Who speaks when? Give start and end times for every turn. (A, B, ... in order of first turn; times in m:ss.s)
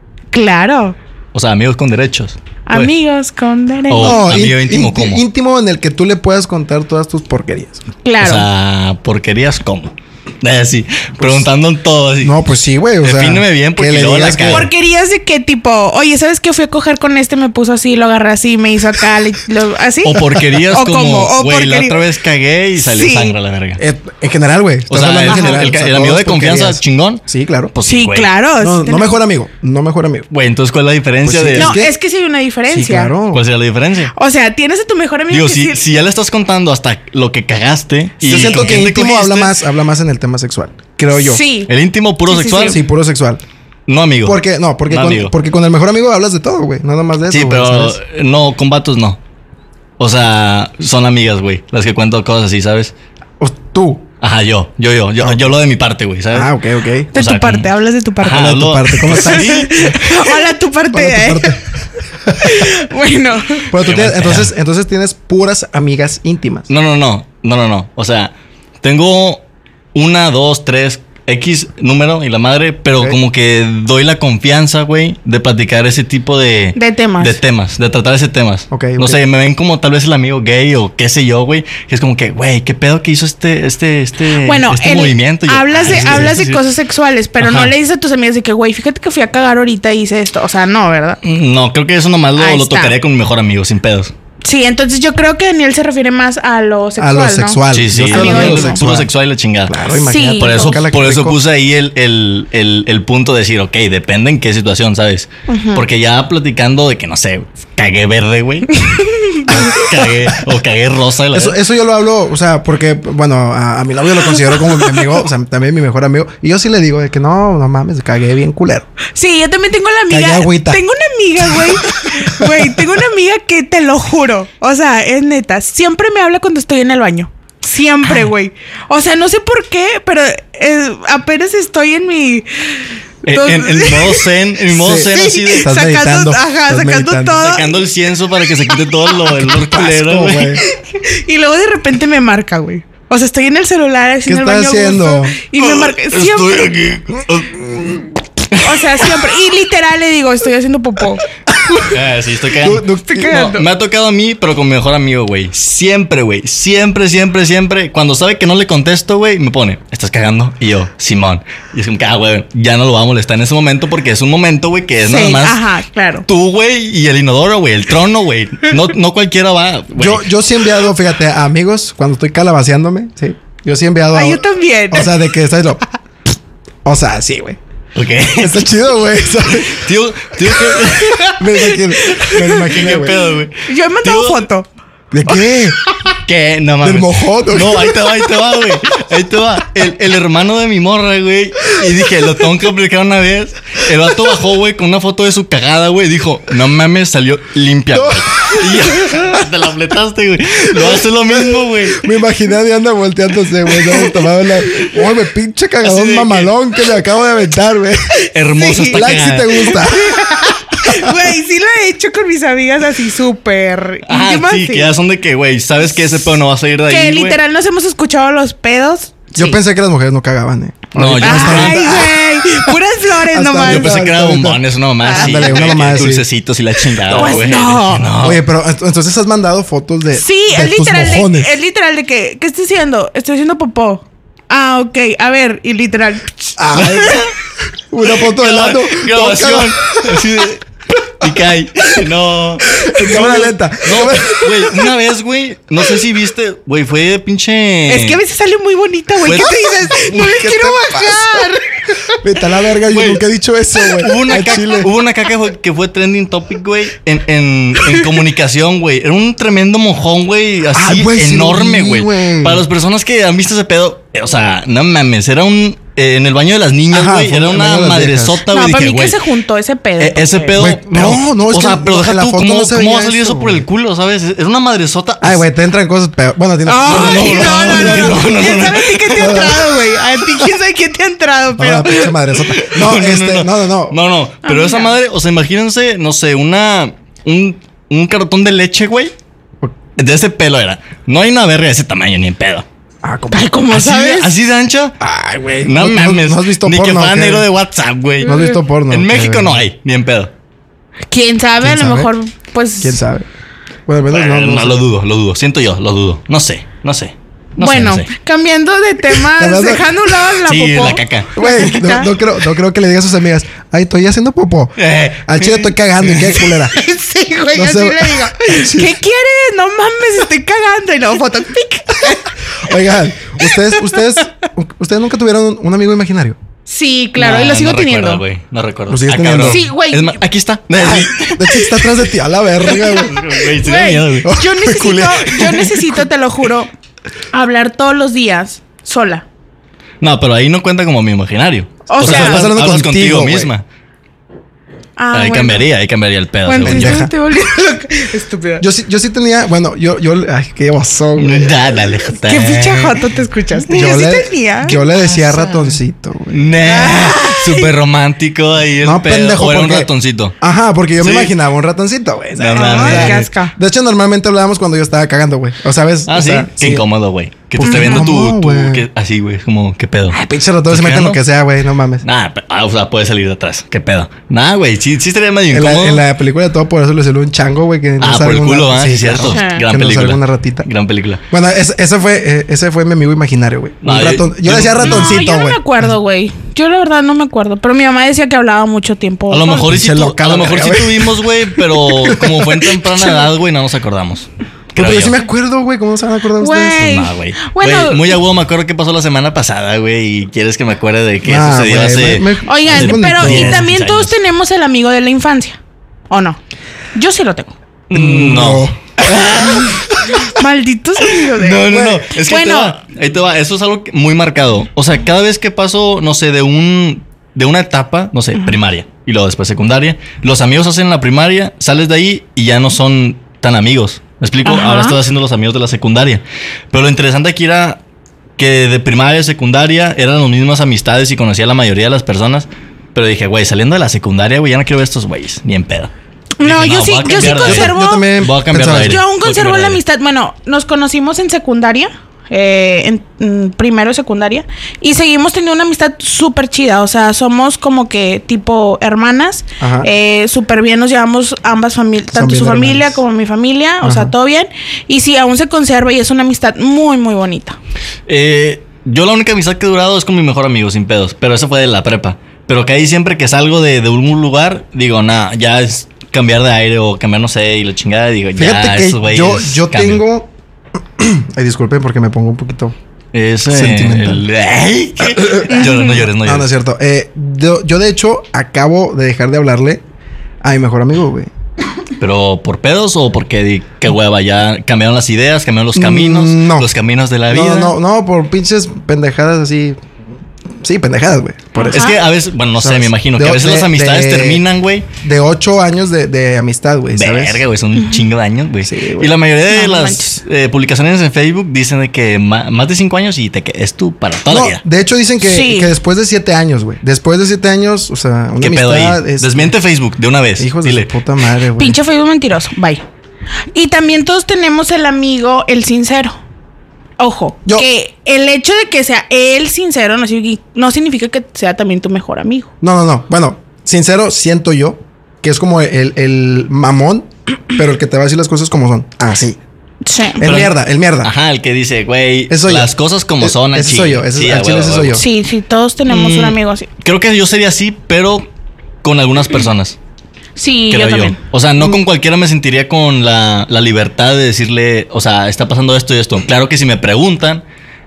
0:00.3-0:01.0 A
0:01.3-0:02.9 B
0:02.7-0:04.2 A
0:03.9-0:05.2 B
0:04.0-0:07.8 C
0:08.0-0:08.5 A
0:08.2-0:12.4 B
0:11.2-0:11.4 C
0:12.2-0:14.7 C
0:13.0-0:14.7 B
0:14.5-0:22.0 A
0:20.0-0:23.8 B
0:22.8-0:23.3 A
0:23.8-0:27.7 C
0:24.9-0:28.3 B
0:25.3-0:25.7 A
0:27.9-0:29.2 A
0:28.6-0:30.3 C
0:30.3-0:31.8 B
0:31.2-0:31.9 C
0:31.6-0:33.1 A
0:32.7-0:33.4 C
0:33.3-0:34.1 B
0:34.2-0:35.8 A
0:35.3-0:39.6 B
0:38.2-0:41.4 C
0:41.1-0:41.7 A
0:41.7-0:42.8 B
0:42.3-0:42.8 A
0:42.6-0:43.4 C
0:43.9-0:45.3 B
0:44.2-0:48.0 C
0:47.3-0:49.2 B
0:50.0-0:52.9 B
0:53.4-0:54.1 C
0:54.2-0:56.5 B
0:56.3-0:57.1 C
0:57.1-1:00.0 B
0:57.1-1:01.6 A
0:58.2-1:00.0 C
1:00.9-1:01.7 C
1:02.3-1:02.7 C
1:02.4-1:03.7 A
1:03.7-1:06.7 C
1:03.7-1:04.5 B
1:06.7-1:09.4 B
1:09.9-1:26.6 B
1:16.8-1:17.4 A
1:18.7-1:19.2 C
1:24.4-1:31.2 A
1:27.4-1:27.7 B
1:31.2-1:34.1 B
1:32.4-1:33.0 A
1:34.4-1:38.8 A
1:37.0-1:39.1 C
1:37.7-1:48.8 B
1:39.7-1:41.4 C
1:40.0-1:40.8 A
1:45.5-1:45.8 A
1:48.8-1:50.0 A
1:49.4-1:51.6 B
1:51.3-1:58.9 C
1:54.5-1:55.2 A
1:59.2-2:12.5 A
2:00.1-2:00.8 C
2:02.0-2:02.6 C
2:13.2-2:15.8 B
2:13.3-2:14.3 A
2:14.7-2:17.4 C
2:15.1-2:17.8 A
2:17.4-2:20.6 B
2:19.3-2:20.6 C
2:20.7-2:26.6 A
2:24.3-2:25.4 C
2:25.6-2:29.1 B
2:28.6-2:31.3 A
2:31.5-2:32.0 C
2:31.9-2:45.6 B
2:32.6-2:33.4 C
2:33.1-2:33.6 A
2:45.1-2:46.2 A
2:46.3-2:50.3 B
2:50.0-2:55.8 C
2:54.1-2:55.1 A
2:56.8-2:57.6 C
2:58.0-2:58.7 B
2:58.4-2:59.9 C
2:59.5-3:01.5 B
3:00.5-3:03.2 C
3:01.6-3:04.7 A
3:02.5-3:04.5 B
3:05.1-3:05.8 C
3:06.0-3:22.0 B
3:06.8-3:08.0 C
3:17.9-3:18.6 C
3:20.9-3:28.2 C
3:25.8-3:26.5 B
3:28.3-3:29.8 B
3:28.5-3:35.0 A
3:28.9-3:30.1 C
3:30.8-3:31.1 C
3:34.1-3:37.4 B
3:36.9-3:39.6 A
3:39.4-3:42.2 C
3:41.0-3:42.0 B
3:41.2-3:44.0 A
3:43.3-3:46.2 C
3:43.6-3:48.4 B
3:45.0-3:45.7 A
3:47.1-3:47.4 C
3:47.1-3:48.1 A
3:48.1-3:51.5 C
3:50.1-3:57.2 A
3:56.6-3:57.2 C
3:56.7-3:57.3 B
3:57.9-4:00.3 C
3:58.0-4:08.2 B
4:02.7-4:04.9 C
4:07.9-4:12.0 A
4:09.2-4:10.2 B
4:09.5-4:11.5 C
4:12.1-4:14.9 C
4:12.9-4:13.2 B
4:14.0-4:29.2 B
4:20.7-4:22.6 C
4:26.9-4:28.4 C
4:28.5-4:30.6 A
4:30.0-4:35.5 B
4:30.6-4:33.7 C
4:35.2-4:39.8 C
4:36.6-4:42.2 A
4:36.8-4:39.4 B
4:41.6-4:44.0 C
4:42.5-4:49.1 B
4:44.4-4:44.9 A
4:50.0-4:52.7 B
4:53.0-4:53.5 C
4:53.3-4:54.3 A
4:53.7-4:55.0 B
4:55.0-4:57.5 C
4:55.6-5:00.3 B
4:58.2-4:59.6 C
5:01.1-5:03.0 A
5:01.6-5:02.1 C
5:02.8-5:03.3 C
5:03.9-5:04.8 C
5:04.1-5:08.1 B
5:07.6-5:12.1 A
5:09.4-5:09.9 C
5:10.4-5:11.5 B
5:11.4-5:16.8 C
5:14.8-5:16.5 B
5:16.7-5:22.3 A
5:17.6-5:19.0 C
5:22.6-5:26.4 C
5:23.4-5:24.0 A
5:26.7-5:28.2 A
5:27.2-5:32.0 B
5:28.9-5:29.6 C
5:29.4-5:30.2 A
5:30.7-5:33.2 C
5:32.6-5:34.4 B
5:33.4-5:36.7 A
5:34.2-5:35.8 C
5:35.4-5:35.7 B
5:37.3-5:39.2 A
5:40.0-5:43.6 B
5:41.9-5:42.5 A
5:42.0-5:43.5 C
5:45.0-5:45.7 A
5:45.1-5:47.1 B
5:46.5-5:48.6 A
5:46.6-5:47.1 C
5:48.6-5:51.6 C
5:51.2-5:53.0 B
5:52.2-5:55.8 A
5:53.7-5:54.0 B
5:53.7-5:56.5 C
5:56.3-6:00.4 B
5:56.6-5:57.7 A
5:58.8-6:06.8 C
6:01.0-6:01.3 B
6:02.4-6:03.2 B
6:02.5-6:03.5 A
6:06.1-6:11.2 B
6:07.6-6:08.9 C
6:07.6-6:08.1 A
6:10.1-6:12.0 C
6:12.0-6:16.0 B
6:15.5-6:20.7 C
6:18.0-6:21.2 B
6:19.3-6:19.7 A
6:21.3-6:25.8 C
6:23.8-6:25.2 B
6:24.8-6:29.7 A
6:29.3-6:35.2 B
6:29.7-6:33.1 C
6:34.8-6:37.0 C
6:36.4-6:38.2 A
6:36.8-6:44.1 B
6:41.2-6:43.6 C
6:42.5-6:45.6 A
6:46.1-6:46.4 A
6:47.0-6:47.5 A
6:47.9-6:50.2 B
6:47.9-6:49.4 C
6:49.6-6:52.8 A
6:51.0-7:07.8 B
6:51.7-6:52.0 C
7:04.4-7:05.0 A
7:08.4-7:19.8 B
7:16.4-7:37.6 A
7:17.2-7:19.0 C
7:29.6-7:29.9 C
7:32.1-7:33.0 C
7:33.8-7:34.1 C
7:38.1-7:50.0 B
7:48.4-7:50.3 C
7:51.0-7:52.8 C
7:53.1-7:56.5 B
7:53.5-7:54.2 C
7:55.1-7:59.8 C
7:55.5-7:56.0 A
8:00.4-8:01.3 C
8:02.0-8:07.8 B
8:05.8-8:06.7 C
8:07.3-8:09.8 C
8:10.6-8:11.9 C
8:11.6-8:12.0 A
8:11.7-8:14.9 B
8:12.6-8:14.4 C
8:15.0-8:17.4 C
8:16.9-8:24.6 B
8:18.6-8:19.1 C
8:19.5-8:20.2 A
8:24.3-8:29.5 C
8:25.2-8:25.7 A
8:28.4-8:30.9 B
8:30.4-8:31.8 C
8:31.6-8:32.8 A
8:33.5-8:36.2 A
8:37.0-8:42.5 A
8:42.6-8:49.4 C
8:49.8-8:50.2 A
8:50.2-8:51.1 C
8:50.2-8:55.0 B
8:52.3-8:55.0 C
8:55.0-8:56.7 A
8:55.9-8:58.3 B
8:58.8-8:59.8 B
9:00.4-9:01.2 A
9:00.7-9:07.4 B